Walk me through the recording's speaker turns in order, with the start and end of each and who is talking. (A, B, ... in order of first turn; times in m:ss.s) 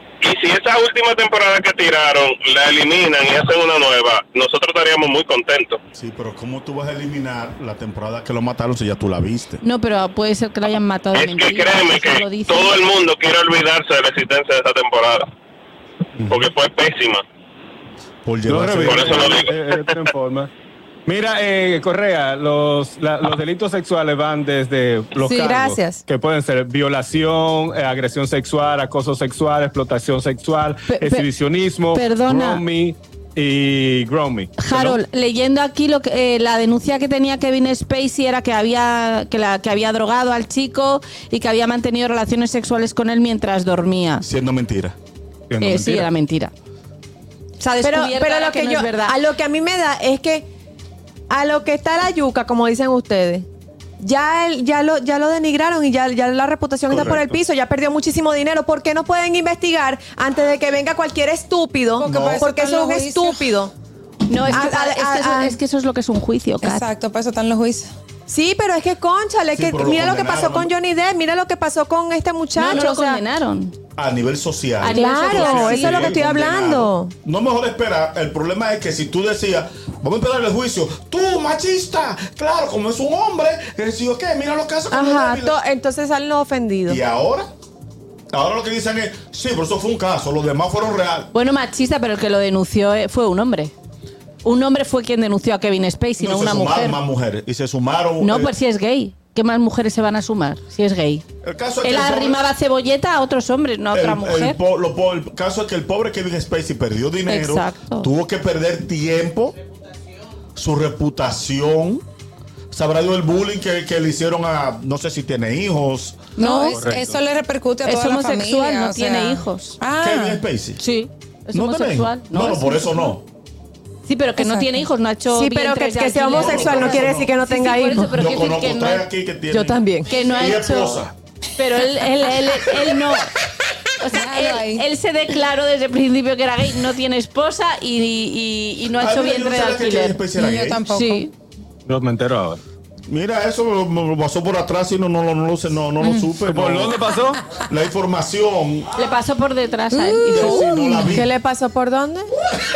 0:00.2-0:05.8 A
0:05.9-0:09.6 B
0:09.6-0:12.8 C
0:11.1-0:15.3 A
0:16.3-0:17.2 A
0:18.2-0:19.3 B
0:18.4-0:20.5 D
0:18.8-0:19.6 A
0:21.0-0:35.0 D
0:25.1-0:26.0 E
0:30.9-0:31.2 C
0:31.9-0:32.6 C
0:34.6-0:44.2 C
0:44.2-0:45.0 B
0:45.5-0:46.1 D
0:45.6-0:46.5 C
0:47.6-0:49.2 C
0:47.8-0:50.4 E
0:51.3-0:53.5 E
0:54.0-1:03.7 E
0:56.9-0:57.4 B
1:02.0-1:03.5 F
1:02.0-1:02.4 B
1:04.3-1:06.9 C
1:04.5-1:05.6 E
1:06.6-1:07.9 F
1:08.3-1:13.2 E
1:09.5-1:10.7 B
1:12.5-1:13.7 C
1:14.0-1:25.6 B
1:14.8-1:16.2 C
1:14.9-1:17.1 E
1:24.9-1:27.0 E
1:26.8-1:27.5 B
1:28.3-1:31.3 B
1:31.3-1:33.7 C
1:34.4-1:37.0 C
1:36.2-1:38.5 B
1:38.2-1:41.2 C
1:41.4-1:42.4 B
1:41.8-1:44.6 C
1:43.9-1:49.6 B
1:47.3-1:48.1 C
1:50.5-1:52.0 B
1:52.7-1:56.3 B
1:56.4-1:56.8 C
1:56.4-2:00.4 F
1:56.7-1:57.2 D
1:57.8-1:59.8 C
2:00.0-2:00.8 B
2:00.8-2:03.1 C
2:01.5-2:03.2 B
2:04.0-2:09.0 C
2:04.4-2:04.7 F
2:05.3-2:08.1 E
2:06.3-2:07.3 B
2:08.1-2:11.1 B
2:09.5-2:10.1 E
2:10.1-2:13.3 C
2:14.0-2:20.2 C
2:14.1-2:14.8 F
2:19.0-2:20.8 B
2:20.4-2:21.2 F
2:20.8-2:21.3 C
2:21.8-2:22.6 D
2:23.1-2:27.0 B
2:26.5-2:27.4 D
2:27.6-2:28.9 B
2:29.0-2:30.7 C
2:29.9-2:30.4 F
2:30.3-2:31.3 B
2:30.4-2:32.3 E